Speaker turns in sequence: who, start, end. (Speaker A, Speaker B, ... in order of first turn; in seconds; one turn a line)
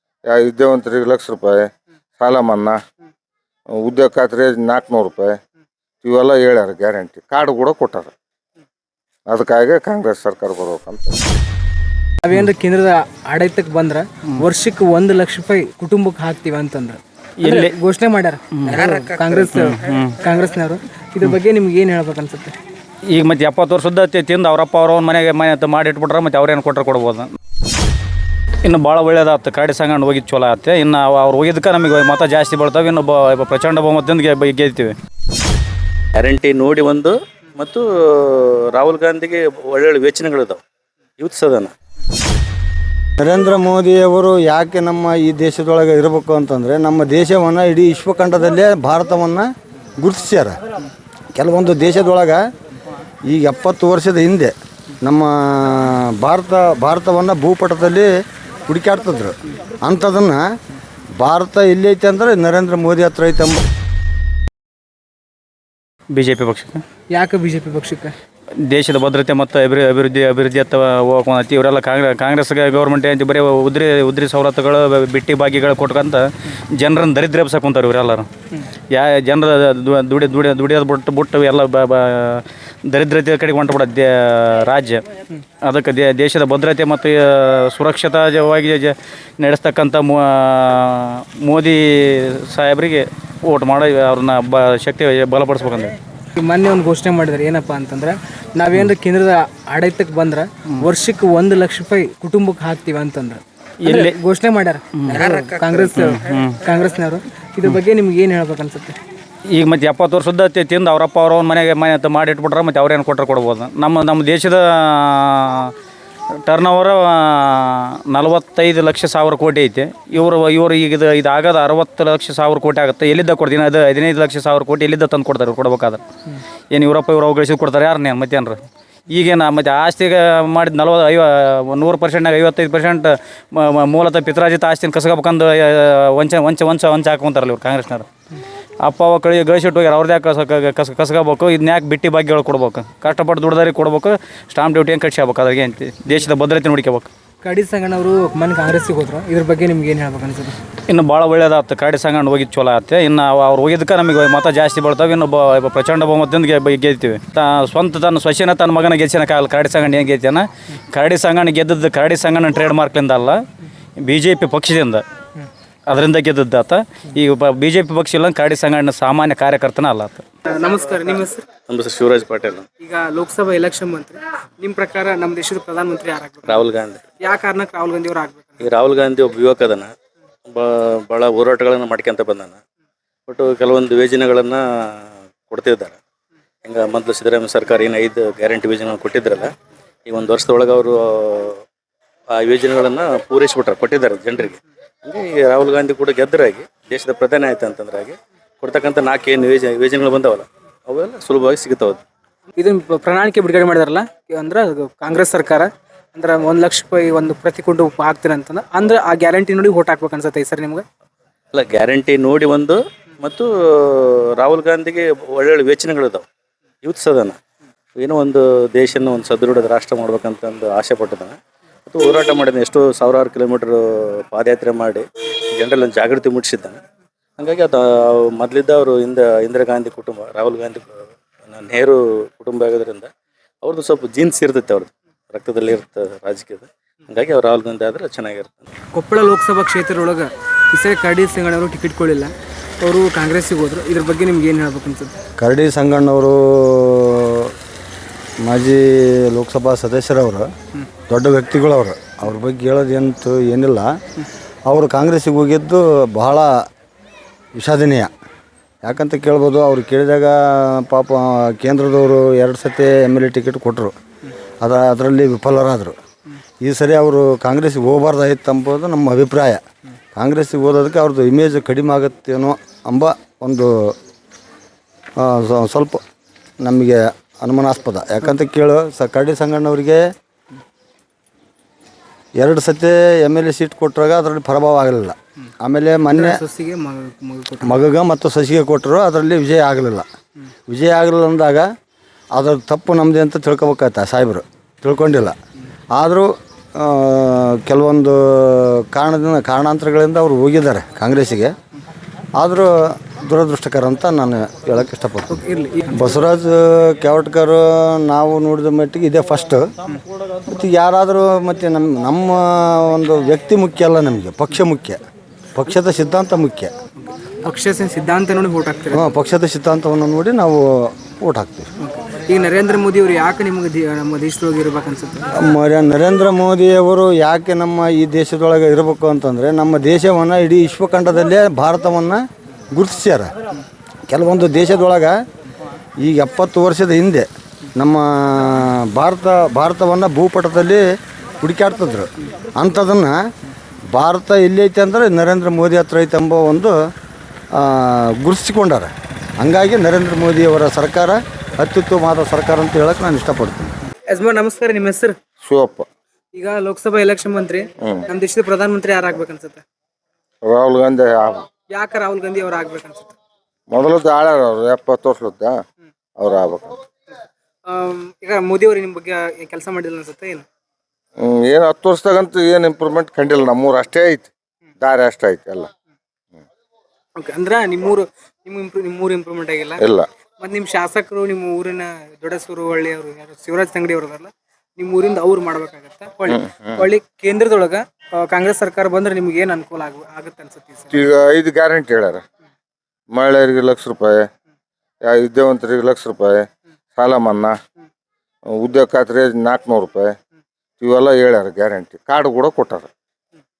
Speaker A: 0.3-2.8
Speaker A: 3.8-5.4
Speaker A: 6.0-8.1
Speaker A: 9.3-11.3
Speaker B: 12.2-22.5
Speaker C: 17.4-17.7
Speaker C: 18.6-18.9
Speaker C: 19.5-20.2
Speaker C: 23.1-27.3
Speaker C: 28.6-34.9
Speaker D: 36.1-40.6
Speaker D: 41.2-41.7
Speaker E: 43.2-50.6
Speaker E: 51.4-52.5
Speaker E: 53.3-60.5
Speaker E: 61.2-63.6
Speaker C: 66.1-66.8
Speaker B: 67.1-68.2
Speaker C: 68.6-78.3
Speaker C: 78.9-85.0
Speaker C: 85.6-96.0
Speaker B: 96.3-109.0
Speaker C: 103.8-104.2
Speaker C: 105.0-105.3
Speaker C: 105.9-106.6
Speaker C: 109.5-115.7
Speaker C: 116.5-126.0
Speaker C: 126.7-138.1
Speaker C: 138.8-147.1
Speaker B: 147.4-150.6
Speaker C: 150.9-163.4
Speaker C: 164.0-165.0
Speaker C: 165.9-170.2
Speaker B: 170.5-171.4
Speaker D: 171.7-172.7
Speaker B: 172.8-176.7
Speaker D: 176.4-177.0
Speaker B: 177.2-178.7
Speaker D: 178.6-179.9
Speaker D: 180.5-182.6
Speaker D: 183.3-186.0
Speaker D: 186.6-189.5
Speaker D: 190.1-191.6
Speaker D: 192.3-202.0
Speaker B: 202.6-210.8
Speaker D: 211.5-216.3
Speaker D: 216.8-217.4
Speaker D: 218.0-225.1
Speaker D: 225.6-226.8
Speaker D: 227.4-233.1
Speaker D: 233.6-238.7
Speaker B: 238.9-245.1
Speaker E: 245.4-247.5
Speaker E: 248.4-250.5
Speaker E: 251.1-253.9
Speaker E: 254.7-256.6
Speaker E: 257.6-258.1
Speaker E: 258.8-263.9
Speaker E: 264.6-266.0
Speaker E: 266.6-269.6
Speaker E: 270.1-274.0
Speaker E: 275.2-276.0
Speaker E: 276.6-280.1
Speaker E: 282.4-286.4
Speaker B: 286.1-287.8
Speaker E: 287.6-290.1
Speaker E: 290.7-291.7
Speaker E: 292.3-295.4
Speaker E: 295.9-301.5
Speaker E: 302.4-305.4
Speaker B: 305.3-306.2
Speaker E: 305.9-309.7
Speaker E: 310.4-315.0
Speaker E: 315.6-316.7
Speaker B: 317.4-319.1
Speaker E: 318.9-321.7
Speaker B: 321.8-325.4
Speaker E: 325.4-333.3
Speaker E: 334.1-335.2
Speaker E: 336.0-340.9
Speaker E: 341.4-343.2
Speaker E: 343.9-346.8
Speaker E: 347.5-353.7
Speaker B: 354.1-355.2
Speaker A: 355.4-355.9
Speaker B: 356.3-359.6
Speaker A: 360.4-361.5
Speaker B: 361.5-363.1
Speaker A: 363.7-365.6
Speaker A: 366.2-366.8
Speaker B: 367.6-370.4
Speaker A: 371.2-375.7
Speaker B: 377.2-379.8
Speaker A: 379.8-380.1
Speaker B: 380.4-391.1
Speaker A: 386.3-386.8
Speaker A: 390.9-392.2
Speaker A: 393.1-394.3
Speaker A: 395.0-396.4
Speaker A: 397.0-397.6
Speaker A: 398.6-400.1
Speaker A: 400.8-402.9